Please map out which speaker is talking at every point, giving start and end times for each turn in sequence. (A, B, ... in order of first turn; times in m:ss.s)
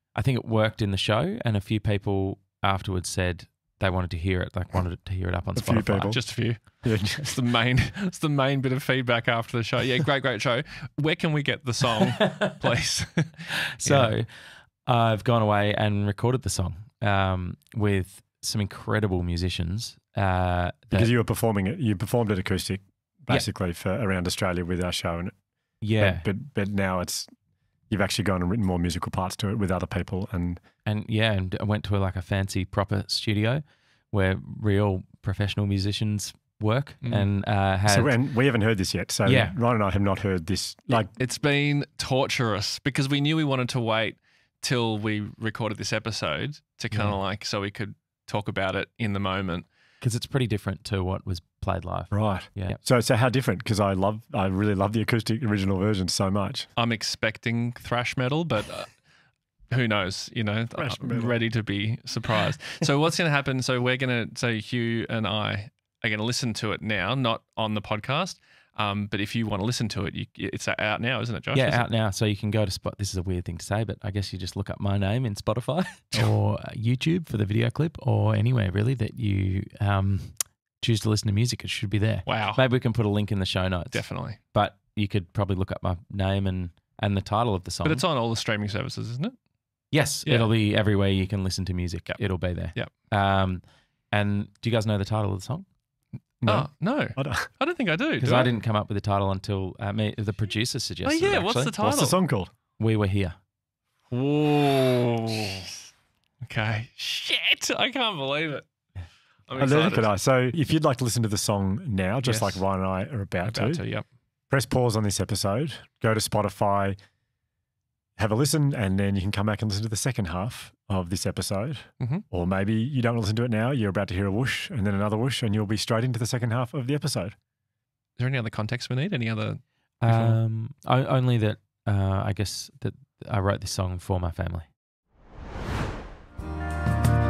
0:00.1-0:06.2 A
0:05.6-0:07.3 B
0:06.1-0:14.1 C
0:13.8-0:14.3 A
0:14.8-0:21.1 A
0:20.9-0:25.3 B
0:25.8-0:26.2 A
0:25.9-0:27.3 B
0:27.9-0:30.6 B
0:30.8-0:38.1 A
0:37.0-0:37.3 C
0:37.9-0:41.1 B
0:39.2-0:39.6 A
0:40.9-0:49.7 C
0:46.9-0:47.2 A
0:50.0-0:52.8 A
0:52.1-0:56.7 B
0:56.8-0:59.0 C
0:59.7-1:11.9 C
1:00.8-1:01.4 B
1:11.5-1:28.0 A
1:22.2-1:22.6 C
1:23.9-1:24.4 C
1:27.8-1:29.4 C
1:29.9-1:35.6 A
1:30.2-1:30.5 C
1:36.4-1:37.5 B
1:36.5-1:38.5 C
1:38.2-1:41.8 A
1:41.0-1:42.2 C
1:41.8-1:42.5 B
1:42.8-1:43.4 A
1:44.1-1:45.7 C
1:46.4-1:48.6 C
1:49.5-1:50.1 C
1:49.6-1:53.8 B
1:52.2-1:52.6 C
1:53.4-1:54.1 C
1:54.5-1:57.0 B
1:58.2-2:07.4 B
2:08.2-2:10.4 C
2:10.0-2:14.7 A